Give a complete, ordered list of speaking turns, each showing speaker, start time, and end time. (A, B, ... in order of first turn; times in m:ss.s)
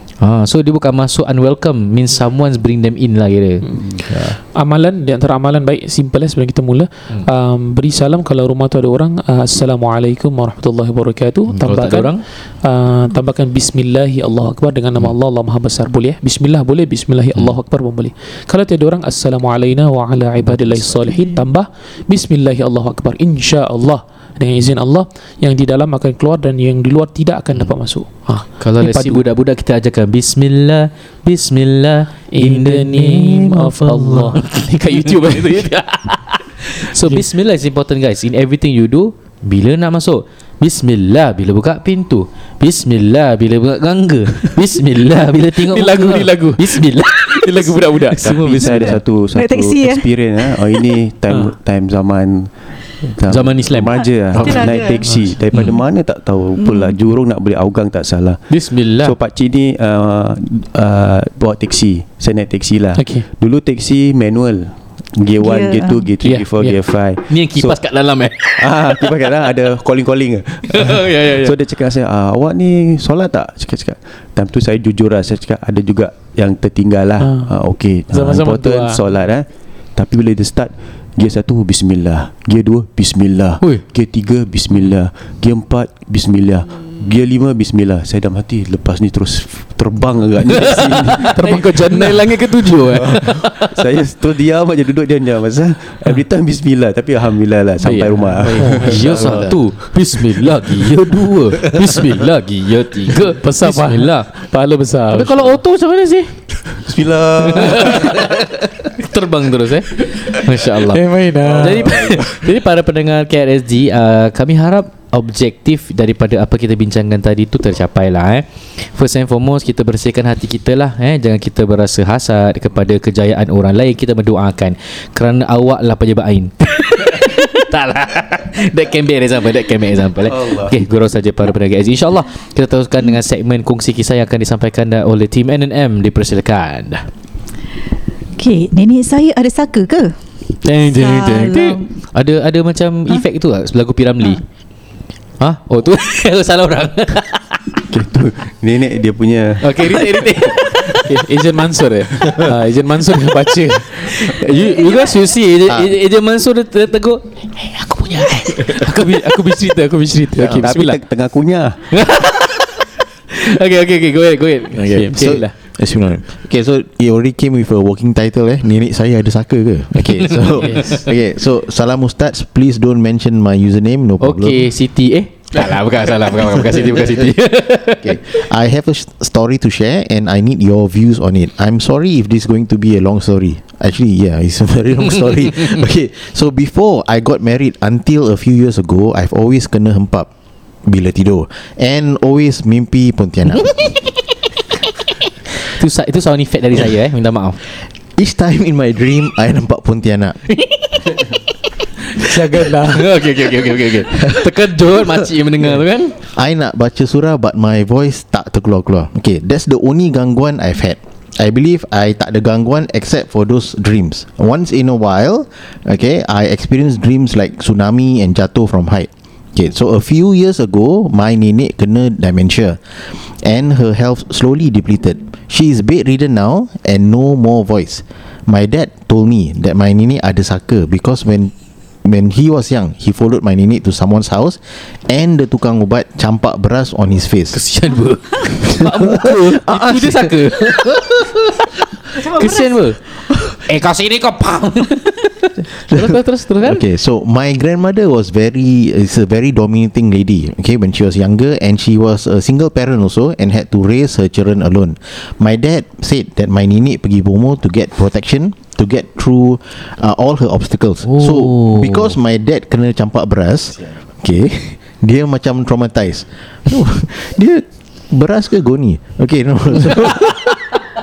0:00.2-0:04.4 A
0:04.4-0:29.2 B
0:11.5-0:12.2 A
0:20.4-0:20.9 A
0:28.6-0:35.5 A
0:32.3-0:37.2 B
0:36.8-0:49.0 A
0:45.7-0:48.2 B
0:48.2-1:07.9 C
0:48.5-0:51.0 D
0:53.3-0:54.7 A
0:54.0-0:55.8 D
0:55.0-0:55.4 B
0:56.6-0:57.0 D
0:58.5-0:59.1 A
1:03.0-1:03.2 B
1:05.4-1:06.1 D
1:06.2-1:06.8 B
1:07.3-1:09.1 A
1:08.6-1:31.9 C
1:10.7-1:11.5 A
1:17.2-1:19.0 B
1:30.5-1:33.7 A
1:31.2-1:32.3 B
1:32.9-1:42.3 C
1:37.8-1:44.4 A
1:38.5-1:39.6 B
1:43.1-1:45.6 B
1:45.1-1:46.5 A
1:46.6-1:48.3 C
1:47.5-2:17.1 A
1:50.9-1:52.0 B
1:51.4-1:52.5 C
2:10.3-2:10.8 C
2:18.4-2:20.2 D
2:20.6-2:24.4 A
2:20.9-2:22.0 D
2:25.4-2:27.6 A
2:27.9-2:30.2 C
2:29.6-2:31.1 A
2:30.9-2:34.3 B
2:33.9-2:39.2 A
2:34.7-2:35.1 D
2:38.7-2:41.0 B
2:40.4-2:42.0 C
2:42.0-2:42.7 A
2:43.3-2:45.4 A
2:44.8-2:45.5 B
2:45.1-2:54.7 E
2:50.3-2:51.1 A
2:54.2-2:58.4 A
2:56.7-2:57.3 E
2:57.9-3:10.3 E
3:10.8-3:13.8 E
3:15.7-3:17.6 A
3:18.2-3:20.4 E
3:22.2-3:23.1 B
3:22.9-3:26.2 A
3:26.3-3:51.5 E
3:52.0-3:57.6 E
3:57.5-4:01.3 A
3:58.8-4:00.4 E
4:02.1-4:06.8 A
4:02.2-4:02.8 D
4:05.9-4:30.6 E
4:21.0-4:22.1 A